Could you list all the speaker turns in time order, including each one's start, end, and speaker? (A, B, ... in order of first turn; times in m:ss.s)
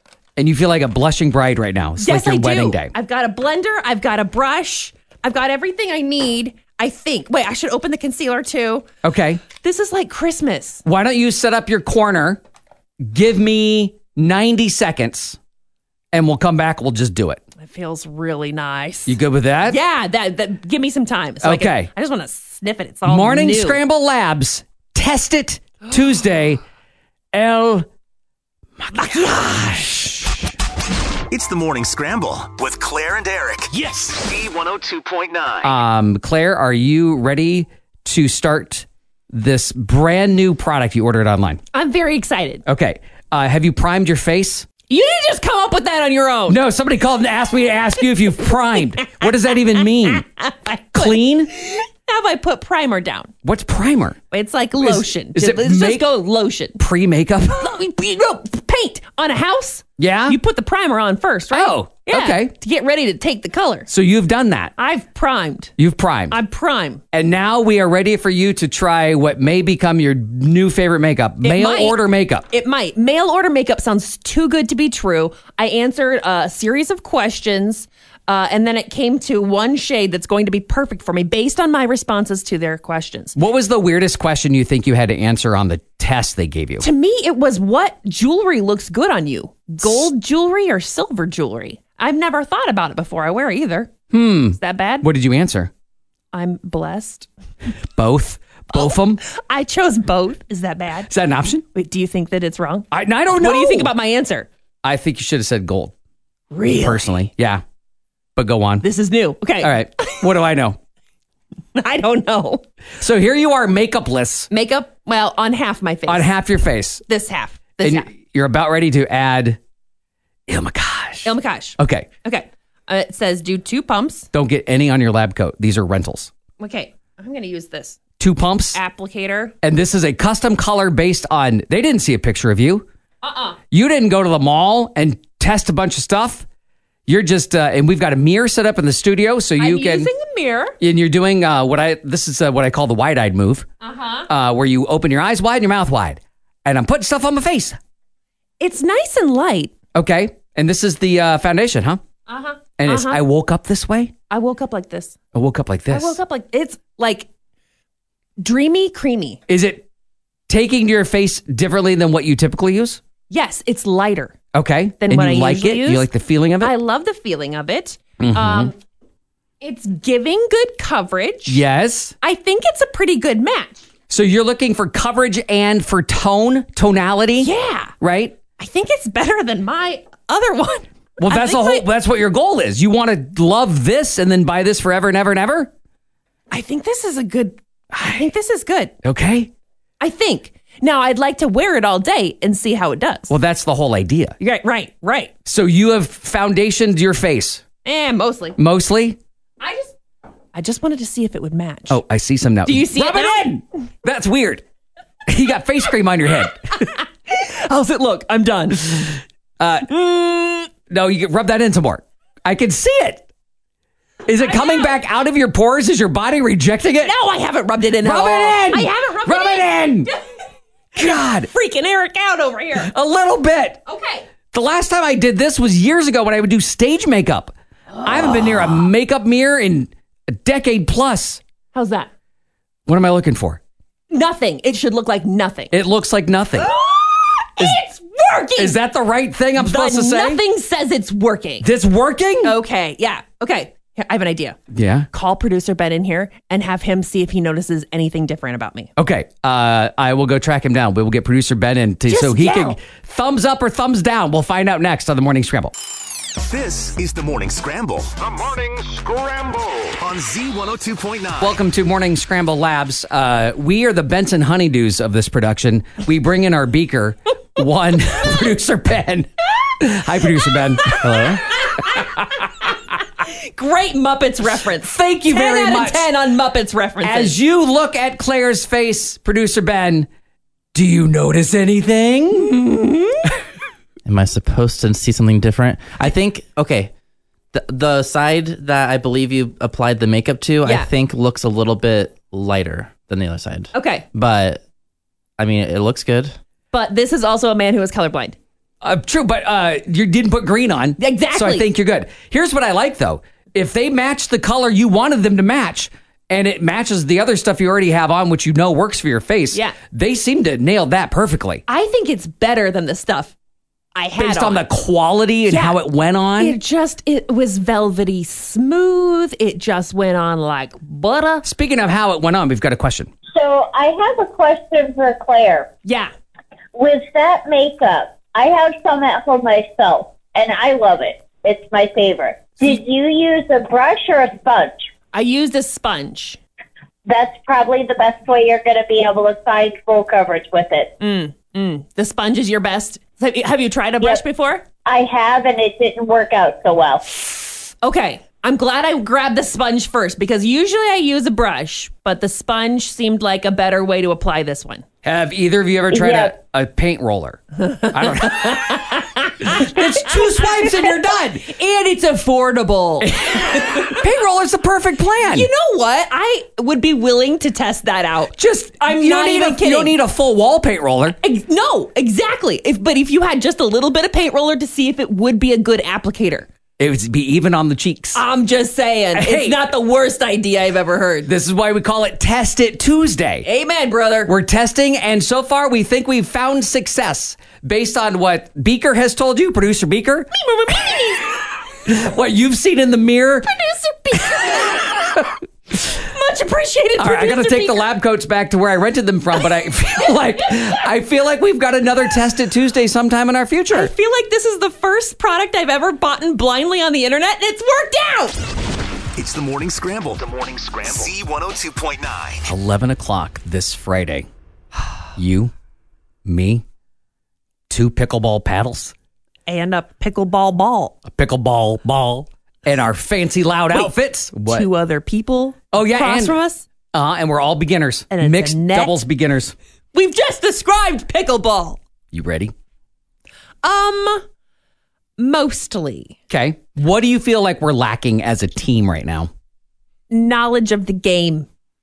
0:00.4-0:02.9 A
0:02.0-0:08.9 B
0:09.0-0:09.4 A
0:09.6-0:10.8 B
0:10.8-0:12.4 A
0:13.0-0:15.4 A
0:16.1-0:17.4 A
0:17.6-0:23.8 B
0:19.1-0:19.8 A
0:21.4-0:21.9 A
0:23.0-0:26.6 A
0:27.3-0:27.9 A
0:28.8-0:30.5 A
0:28.9-0:30.2 B
0:31.3-0:35.7 C
0:35.6-0:41.6 A
0:41.7-0:42.6 B
0:42.6-0:44.7 A
0:44.9-0:46.6 B
0:46.5-0:50.2 A
0:49.0-0:49.3 B
0:49.8-0:53.3 B
0:50.9-0:51.5 A
0:53.4-0:54.2 A
0:54.3-0:56.8 B
0:54.8-0:56.1 A
0:56.8-0:57.8 A
0:57.5-1:03.9 B
1:00.0-1:00.4 A
1:01.5-1:02.5 A
1:03.9-1:04.7 A
1:04.8-1:05.7 B
1:05.8-1:06.4 A
1:06.3-1:07.0 B
1:07.1-1:12.4 A
1:11.4-1:23.4 B
1:23.4-1:26.8 A
1:26.8-1:33.9 B
1:34.1-1:35.7 A
1:34.6-1:35.1 B
1:36.3-1:37.3 B
1:37.9-1:39.2 A
1:38.7-1:41.1 B
1:41.1-1:41.6 A
1:41.7-1:44.5 B
1:42.9-1:43.9 A
1:44.8-1:45.9 A
1:46.5-1:47.2 B
1:46.7-1:47.6 A
1:48.4-1:48.8 A
1:48.8-1:50.2 B
1:49.6-1:50.8 A
1:51.7-1:52.6 B
1:53.0-1:54.5 A
1:54.5-1:56.3 B
1:56.1-1:57.0 A
1:57.1-1:58.1 B
1:57.8-1:59.6 A
2:00.5-2:02.1 A
2:01.2-2:04.3 B
2:04.3-2:06.3 A
2:06.6-2:08.0 B
2:08.2-2:08.8 A
2:08.7-2:09.5 B
2:09.6-2:12.8 A
2:13.2-2:13.6 B
2:13.7-2:16.4 A
2:17.1-2:20.1 A
2:19.6-2:20.8 B
2:20.8-2:23.6 A
2:23.8-2:24.3 B
2:24.3-2:27.8 A
2:28.6-2:29.7 B
2:29.9-2:32.0 A
2:32.3-2:33.2 B
2:32.8-2:34.1 A
2:34.3-2:35.2 B
2:35.3-2:36.2 A
2:35.9-2:37.3 B
2:38.4-2:39.4 B
2:39.5-2:39.8 A
2:40.5-2:43.0 A
2:43.3-2:44.3 B
2:44.5-2:46.7 A
2:45.0-2:46.1 B
2:46.6-2:48.7 B
2:48.2-2:48.7 A
2:49.6-2:51.6 B
2:51.5-2:52.1 A
2:52.2-2:53.8 B
2:54.1-2:58.4 A
2:57.4-2:57.9 B
2:58.6-3:01.8 B
3:01.2-3:05.7 A
3:06.5-3:08.9 B
3:07.9-3:08.3 A
3:09.0-3:09.5 A
3:10.0-3:13.3 B
3:13.3-3:14.4 A
3:14.4-3:15.3 B
3:15.4-3:17.6 A
3:17.8-3:18.6 B
3:18.6-3:19.2 A
3:19.6-3:19.9 B
3:20.5-3:22.0 B
3:21.9-3:24.6 A
3:22.6-3:23.6 B
3:25.2-3:26.9 A
3:26.8-3:29.2 B
3:29.6-3:29.9 A
3:29.9-3:30.7 B
3:30.9-3:33.2 A
3:34.2-3:37.1 A
3:34.4-3:35.0 B
3:37.0-3:40.2 B
3:38.0-3:40.1 A
3:40.9-3:41.5 A
3:40.9-3:42.9 B
3:42.8-3:43.8 A
3:43.9-3:44.2 B
3:44.5-3:51.4 A
3:51.7-3:52.1 B
3:52.9-3:53.6 A
3:54.1-3:55.7 B
3:55.7-3:56.7 A
3:56.6-3:58.8 B
3:58.6-4:00.4 A
3:59.6-4:01.7 B
4:01.6-4:02.6 A
4:02.4-4:04.6 B
4:04.7-4:05.1 A
4:05.1-4:08.9 B
4:09.0-4:15.7 A
4:12.1-4:12.8 B
4:16.4-4:21.5 C
4:21.4-4:32.7 A
4:30.4-4:37.4 B
4:31.0-4:31.4 D
4:34.8-4:36.2 A
4:37.0-4:40.1 A
4:40.7-4:42.8 A
4:44.0-4:46.9 E
4:47.5-4:54.6 E
4:50.6-4:50.9 B
4:53.7-4:54.1 B
4:55.4-4:56.3 E
4:56.7-4:58.4 B
4:58.8-5:11.6 A
5:01.0-5:01.7 B
5:11.7-5:13.3 B
5:13.9-5:14.6 B
5:14.2-5:16.6 A
5:15.5-5:15.8 B
5:16.4-5:21.4 B
5:21.4-5:23.1 A
5:23.3-5:25.7 D
5:25.8-5:26.1 B
5:26.7-5:34.8 D
5:35.1-5:36.4 B
5:37.0-5:40.9 D
5:41.0-5:44.6 B
5:44.8-5:47.1 D
5:47.3-5:54.8 B
5:55.0-5:58.8 A
5:55.9-5:56.3 D
5:57.6-6:04.1 B
5:59.4-6:01.5 A
6:03.0-6:05.5 A
6:05.2-6:09.9 B
6:08.4-6:11.2 A
6:11.1-6:16.5 B
6:16.8-6:18.2 A
6:18.1-6:21.3 B
6:19.1-6:19.6 A
6:21.2-6:23.4 A
6:23.4-6:24.3 B
6:24.2-6:30.3 A
6:30.3-6:31.4 B
6:31.8-6:33.5 A
6:33.4-6:35.2 B
6:35.8-6:37.9 B
6:37.0-6:43.9 A
6:43.7-6:48.4 B
6:49.2-6:52.5 C
6:52.4-6:54.3 A
6:55.1-6:55.5 A
6:56.2-6:56.6 A
6:57.7-6:58.9 A
6:59.5-7:01.0 B
7:01.0-7:04.7 A
7:04.4-7:06.6 B
7:05.7-7:06.4 A
7:06.9-7:09.5 A
7:08.1-7:09.0 B
7:09.9-7:11.8 B
7:12.1-7:12.5 A
7:13.6-7:14.2 B
7:15.2-7:16.2 B
7:16.3-7:19.3 A
7:20.1-7:21.5 B